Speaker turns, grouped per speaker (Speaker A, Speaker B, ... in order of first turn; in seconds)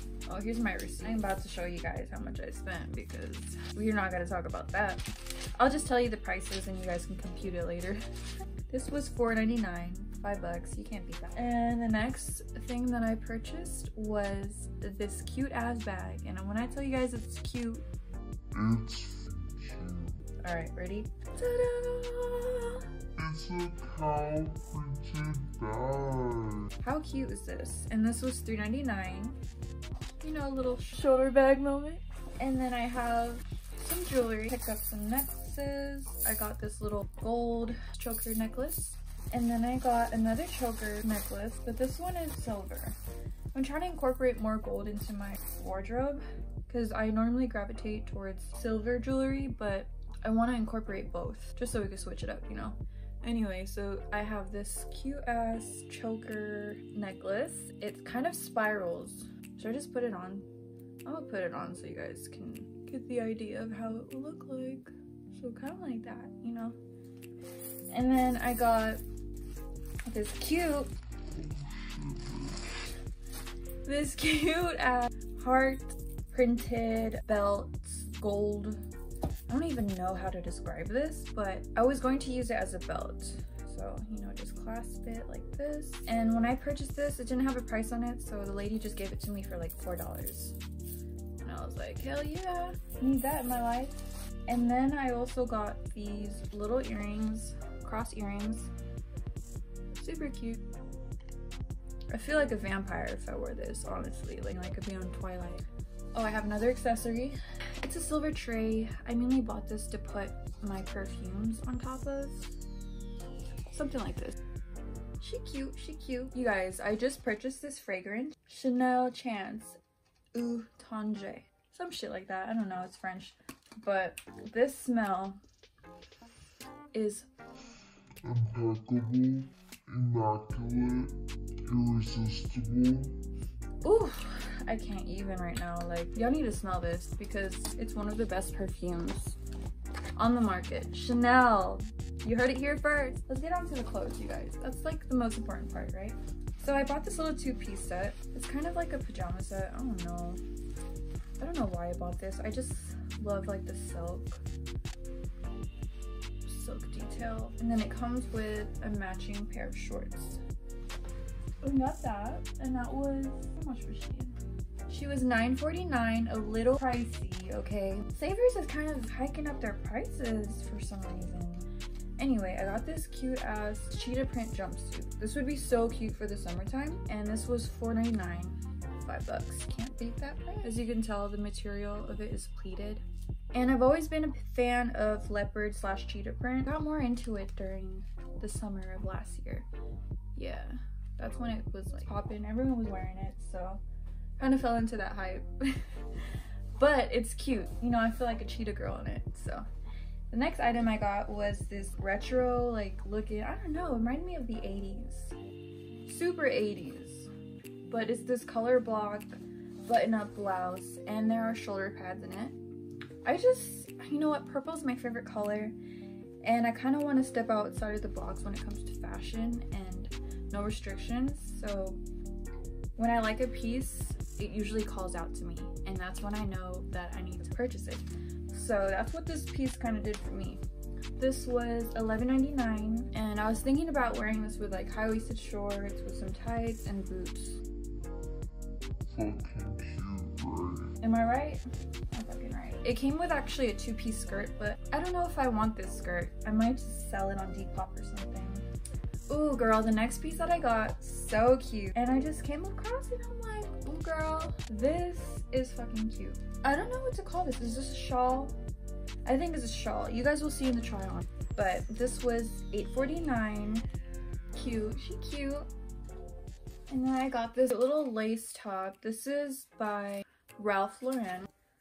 Speaker A: 0.3-8.0, 8.7-17.9, 20.4-22.8, 26.8-29.4, 30.2-43.0, 43.5-60.5, 61.0-66.8, 67.9-69.0, 70.0-70.9, 73.8-78.8, 79.5-90.6, 91.4-98.7, 99.9-100.6, 102.1-112.6, 113.7-114.4, 115.2-119.8, 120.3-125.4, 126.9-127.3, 133.8-139.4, 140.2-150.4, 151.4-154.4, 156.4-160.4, 161.6-189.7, 190.3-193.8, 194.4-199.7, 200.3-205.3, 206.1-207.3, 207.9-212.6, 213.2-215.8, 216.4-222.0, 223.0-230.6, 231.2-237.6, 241.0-248.6, 249.3-258.6, 259.2-263.9, 264.5-265.7, 266.9-271.5
Speaker B: 18.5-20.2, 23.2-26.7, 71.3-72.7, 128.2-133.2, 239.1-240.9